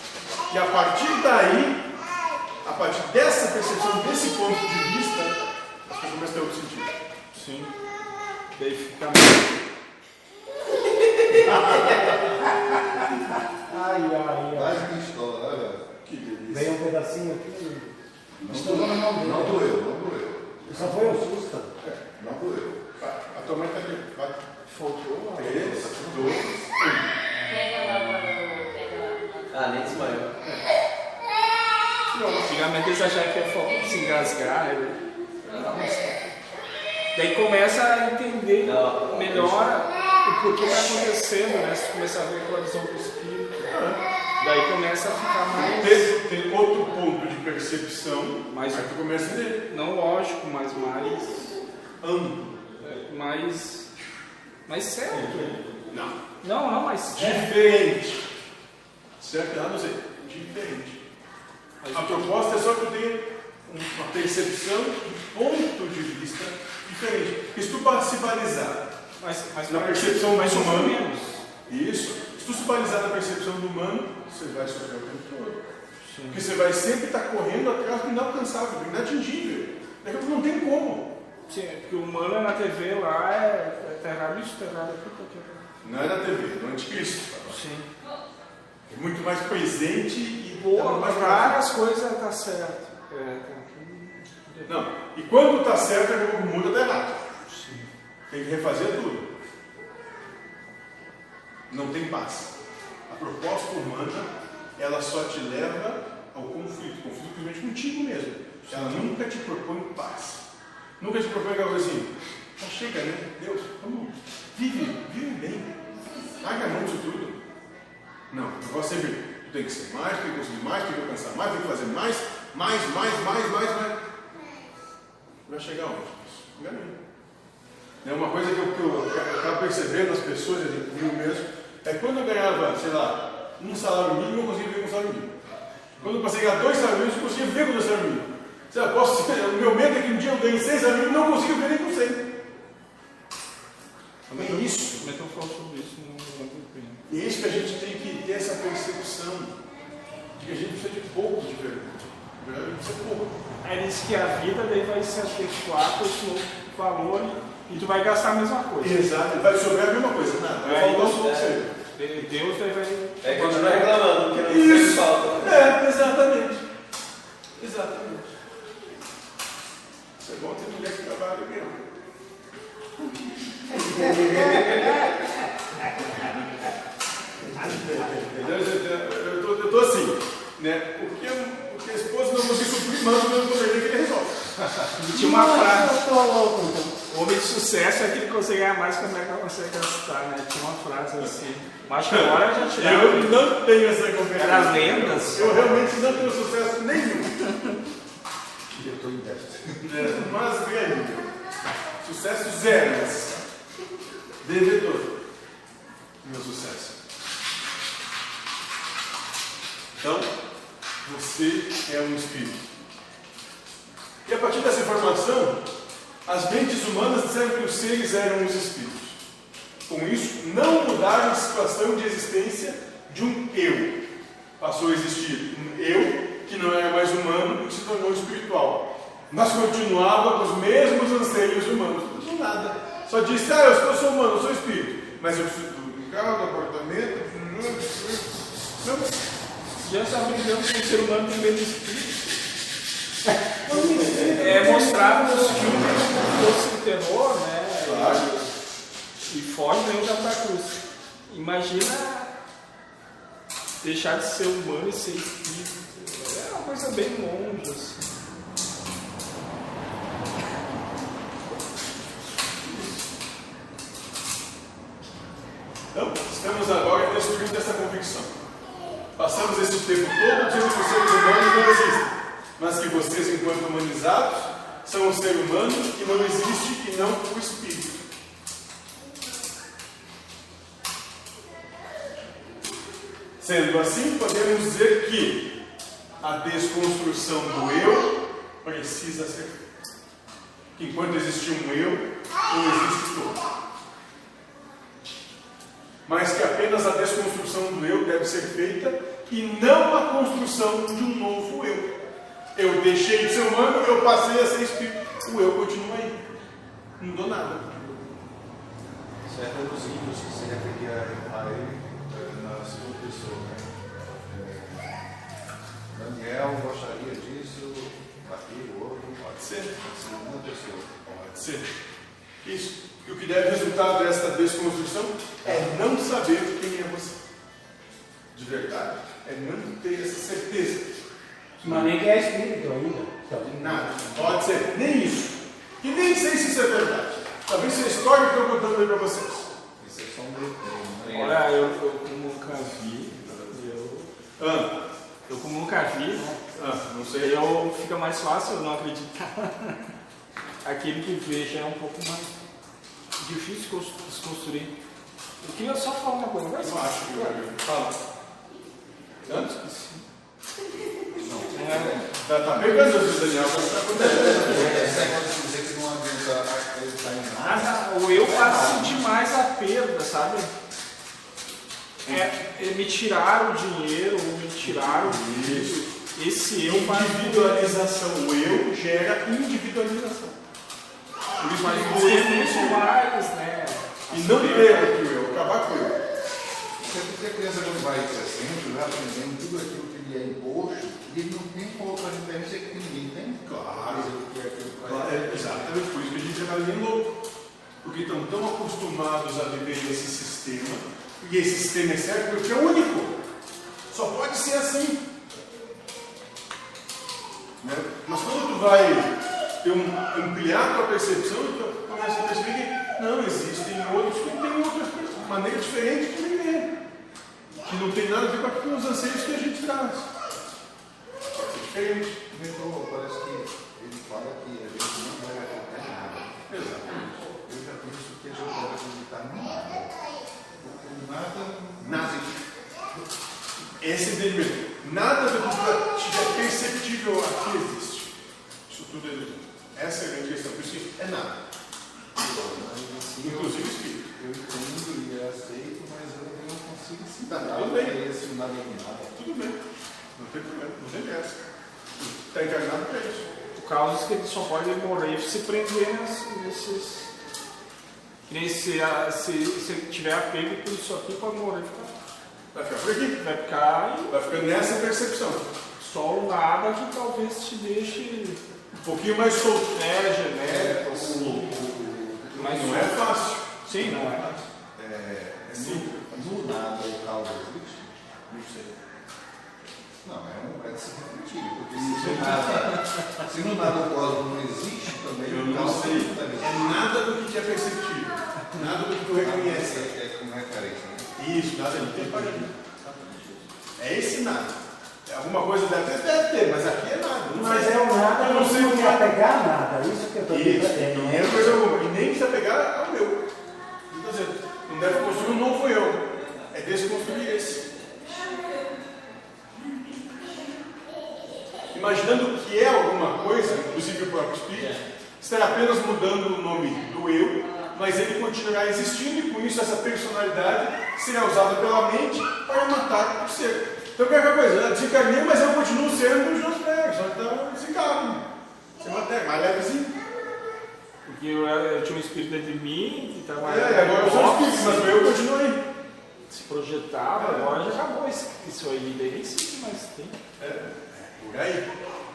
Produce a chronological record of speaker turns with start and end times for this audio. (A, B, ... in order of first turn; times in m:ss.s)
0:00.5-0:01.8 A
0:02.6-0:06.9 A
0:07.3-0:07.7 B
0:08.5-0:09.5 B
0:11.3-0:12.1 C
0:11.6-0:12.8 D
0:13.7-0:14.9 D
0:14.5-0:15.8 C
0:16.0-0:16.7 A
0:16.5-0:17.9 D
0:18.4-0:21.0 C
0:18.4-0:19.7 D
0:20.6-0:21.7 D
0:20.7-0:21.2 A
0:22.2-0:22.8 C
0:23.0-0:24.4 A
0:24.6-0:25.8 B
0:25.4-0:27.0 A
0:25.4-0:26.8 C
0:27.5-0:30.1 E
0:29.5-0:30.3 F
0:32.1-0:32.4 A
0:32.4-0:35.0 B
0:33.7-0:34.4 E
0:35.4-0:36.2 E
0:37.1-0:43.6 B
0:38.6-0:39.7 F
0:43.6-0:44.0 A
0:44.4-0:46.1 B
0:45.5-0:49.6 A
0:48.5-0:49.0 B
0:49.5-0:51.6 B
0:52.0-0:52.6 A
0:52.8-0:53.9 B
0:54.6-0:55.6 B
0:55.9-0:56.2 A
0:56.4-0:57.5 B
0:57.1-0:58.3 A
0:59.2-1:01.0 A
1:01.8-1:02.3 B
1:01.9-1:08.9 A
1:09.2-1:11.4 B
1:09.7-1:11.0 A
1:11.7-1:15.7 A
1:16.0-1:16.5 B
1:16.3-1:21.1 A
1:21.5-1:25.6 B
1:25.8-1:27.6 A
1:27.5-1:27.9 B
1:28.9-1:31.6 A
1:30.6-1:34.7 B
1:34.6-1:37.2 A
1:37.5-1:37.9 B
1:38.3-1:39.3 A
1:41.7-1:42.5 A
1:43.1-1:50.4 A
1:48.7-1:49.1 B
1:51.0-1:55.7 A
1:56.4-1:57.4 A
1:58.3-2:04.0 A
2:05.4-2:07.0 A
2:08.0-2:15.4 A
2:16.0-2:22.2 A
2:24.3-2:25.1 A
2:24.3-2:27.0 B
2:27.1-2:29.6 A
2:30.4-2:33.4 A
2:33.6-2:39.0 B
2:38.8-2:41.7 A
2:40.6-2:43.9 B
2:40.8-2:41.6 F
2:43.2-2:45.8 F
2:44.3-2:46.6 A
2:47.6-2:48.3 A
2:50.2-2:51.8 A
2:53.7-2:55.0 D
2:53.9-2:54.6 A
2:54.4-2:54.9 F
2:57.5-3:04.5 A
3:04.6-3:04.9 C
3:05.0-3:07.0 D
3:05.1-3:06.0 B
3:07.1-3:13.5 B
3:12.1-3:17.4 A
3:14.3-3:16.1 B
3:17.4-3:17.8 B
3:18.7-3:20.2 C
3:19.8-3:21.3 A
3:22.0-3:23.4 A
3:24.4-3:25.1 A
3:26.2-3:27.0 A
3:30.0-3:30.3 A
3:31.0-3:32.6 A
3:34.2-3:35.6 A
3:36.2-3:39.2 A
3:39.9-3:44.0 A
3:44.6-3:59.2 A
3:59.8-4:02.3 B
4:03.6-4:05.9 D
4:04.4-4:08.5 B
4:07.8-4:08.3 A
4:09.2-4:12.3 B
4:13.8-4:18.0 B
4:22.6-4:23.0 A
4:25.9-4:28.4 A
4:29.2-4:38.0 A
4:43.4-4:45.5 A
4:46.2-4:49.6 A
4:50.8-4:53.4 A
4:56.0-5:01.9 A
5:02.5-5:06.2 A
5:07.0-5:08.1 A
5:09.2-5:15.0 C
5:15.9-5:21.2 C
5:19.3-5:19.8 A
5:21.1-5:21.7 A
5:22.4-5:27.2 A
5:25.4-5:25.7 C
5:28.3-5:30.9 A
5:31.6-5:33.9 D
5:33.5-5:39.5 A
5:39.8-5:41.4 C
5:41.1-5:44.1 B
5:42.5-5:43.6 A
5:44.4-5:44.8 A
5:45.3-5:46.3 B
5:46.5-5:47.3 A
5:47.2-5:49.9 B
5:50.6-5:52.4 B
5:53.2-5:54.7 B
5:55.4-5:57.4 B
5:56.6-5:58.0 A
5:59.2-5:59.5 A
6:01.1-6:09.0 C
6:01.5-6:02.8 B
6:02.2-6:05.0 A
6:04.4-6:05.0 F
6:07.4-6:10.5 B
6:12.1-6:18.0 B
6:14.6-6:15.8 A
6:16.6-6:20.4 A
6:21.4-6:22.8 A
6:21.4-6:24.9 B
6:24.1-6:26.0 A
6:26.8-6:35.2 C
6:33.4-6:34.1 A
6:34.8-6:35.2 F
6:34.8-6:37.2 A
6:37.8-6:43.2 A
6:43.9-6:45.0 A
6:47.6-6:56.7 A
6:57.6-7:00.1 A
7:01.3-7:02.2 A
7:02.3-7:10.0 C
7:06.5-7:07.2 A
7:10.6-7:12.4 C
7:11.8-7:12.2 A
7:13.8-7:18.1 A
7:18.7-7:21.4 A
7:22.2-7:29.2 C
7:23.2-7:24.1 A
7:27.3-7:28.0 A
7:29.1-7:29.6 A
7:30.2-7:31.4 A
7:32.0-7:33.2 A
7:33.6-7:37.1 B
7:38.3-7:41.9 B
7:42.5-7:43.2 A
7:43.2-7:44.1 B
7:44.1-7:45.5 A
7:45.8-7:48.4 B
7:48.7-7:49.7 A
7:49.7-7:51.5 B
7:50.4-7:52.8 C
7:52.3-7:54.4 A
7:52.4-7:54.3 B
7:54.7-7:58.0 C
7:55.5-7:56.4 A
7:58.3-7:58.8 A
8:00.0-8:06.7 C
8:01.8-8:03.2 B
8:01.9-8:02.4 A
8:05.2-8:09.9 A
8:09.1-8:11.1 C
8:11.2-8:19.1 A
8:12.0-8:12.4 C
8:17.3-8:21.6 D
8:20.3-8:23.2 A
8:23.9-8:27.6 A
8:31.7-8:48.2 A
8:48.8-8:49.9 A
8:51.0-8:55.1 B
8:53.4-8:55.6 A
8:56.3-9:00.2 B
8:57.1-8:57.6 A
9:00.4-9:01.7 A